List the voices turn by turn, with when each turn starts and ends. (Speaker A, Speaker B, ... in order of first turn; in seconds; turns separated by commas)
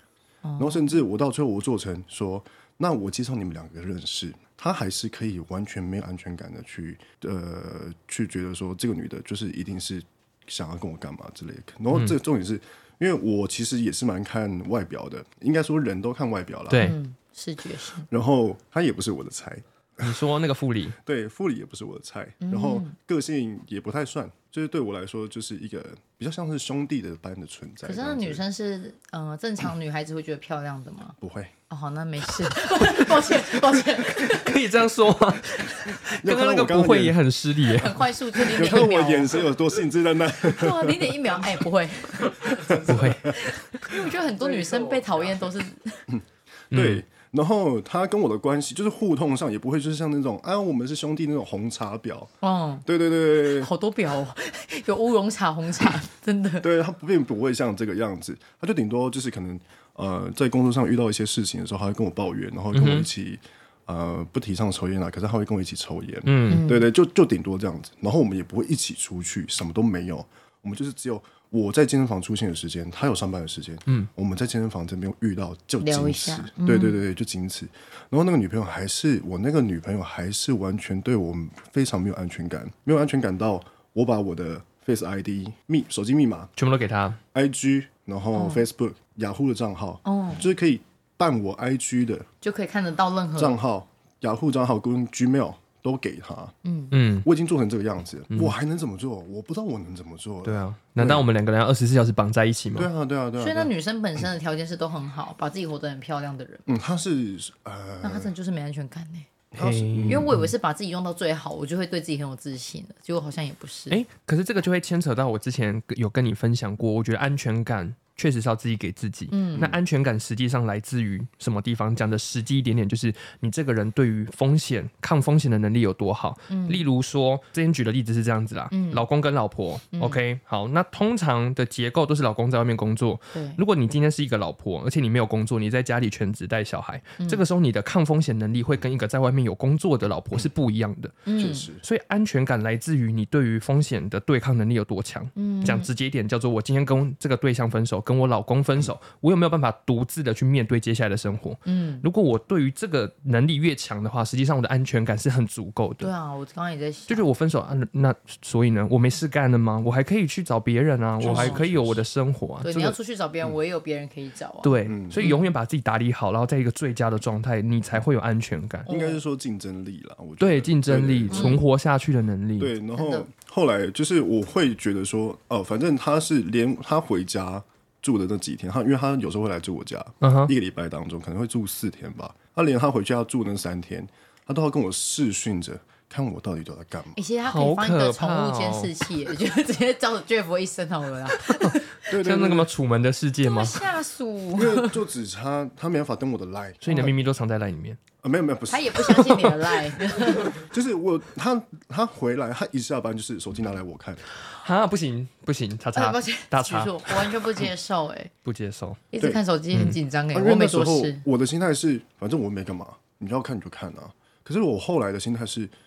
Speaker A: 0.4-1.0, Speaker B: 0.6-16.9, Speaker C: 16.7-17.0, Speaker A: 16.8-18.1, Speaker B: 18.1-20.2, Speaker C: 20.0-21.0, Speaker B: 21.0-28.4, Speaker A: 22.4-22.9, Speaker A: 27.8-31.2, Speaker B: 31.2-31.5, Speaker A: 31.7-34.8, Speaker C: 32.7-33.2, Speaker C: 34.1-38.9, Speaker A: 35.5-36.0, Speaker B: 36.0-37.2, Speaker A: 37.6-39.5, Speaker B: 38.4-41.4, Speaker A: 40.4-46.0, Speaker B: 42.6-43.1, Speaker C: 42.8-43.6, Speaker B: 46.1-52.3, Speaker C: 46.7-47.0, Speaker A: 52.4-52.9, Speaker B: 52.9-53.7, Speaker A: 53.4-56.7, Speaker B: 56.6-86.5, Speaker C: 62.7-63.1, Speaker C: 66.2-66.6, Speaker A: 66.5-66.9, Speaker A: 75.8-77.0, Speaker C: 86.5-87.2, Speaker B: 87.3-92.3, Speaker A: 88.3-88.7, Speaker A: 90.0-90.5, Speaker A: 92.4-93.6, Speaker B: 93.3-96.5, Speaker A: 96.6-96.9, Speaker C: 96.9-97.3, Speaker B: 97.2-101.2, Speaker C: 100.4-102.9, Speaker B: 102.8-103.7, Speaker A: 103.4-106.7, Speaker B: 106.7-108.3, Speaker A: 108.0-109.3, Speaker B: 109.5-110.4, Speaker C: 109.6-110.5, Speaker A: 110.0-114.0, Speaker C: 113.9-141.2, Speaker A: 119.3-119.7, Speaker A: 126.5-126.8, Speaker A: 128.7-129.1, Speaker A: 129.9-130.2, Speaker A: 133.3-133.6, Speaker A: 141.2-141.7, Speaker B: 141.3-141.8, Speaker C: 141.8-156.1, Speaker A: 145.3-145.9, Speaker A: 151.7-152.1, Speaker A: 156.0-157.2, Speaker C: 157.1-163.0, Speaker B: 161.2-162.0, Speaker A: 161.2-161.6, Speaker A: 162.6-165.5, Speaker C: 164.6-168.9, Speaker B: 164.8-165.2, Speaker A: 168.8-169.2, Speaker B: 168.9-171.6, Speaker C: 170.4-172.7, Speaker A: 171.3-171.6, Speaker B: 172.6-187.2, Speaker A: 172.9-173.2, Speaker C: 180.2-180.5, Speaker A: 187.2-192.1, Speaker C: 187.4-188.9, Speaker C: 191.5-193.9, Speaker B: 192.1-192.7, Speaker A: 193.4-195.0, Speaker B: 194.5-197.1, Speaker C: 196.8-198.0, Speaker B: 198.2-199.2, Speaker A: 198.7-200.6, Speaker C: 199.1-199.5, Speaker B: 200.5-204.2, Speaker C: 204.4-207.4, Speaker A: 205.9-208.3, Speaker C: 208.4-209.0, Speaker A: 209.1-211.2, Speaker C: 209.7-210.0, Speaker B: 210.3-215.7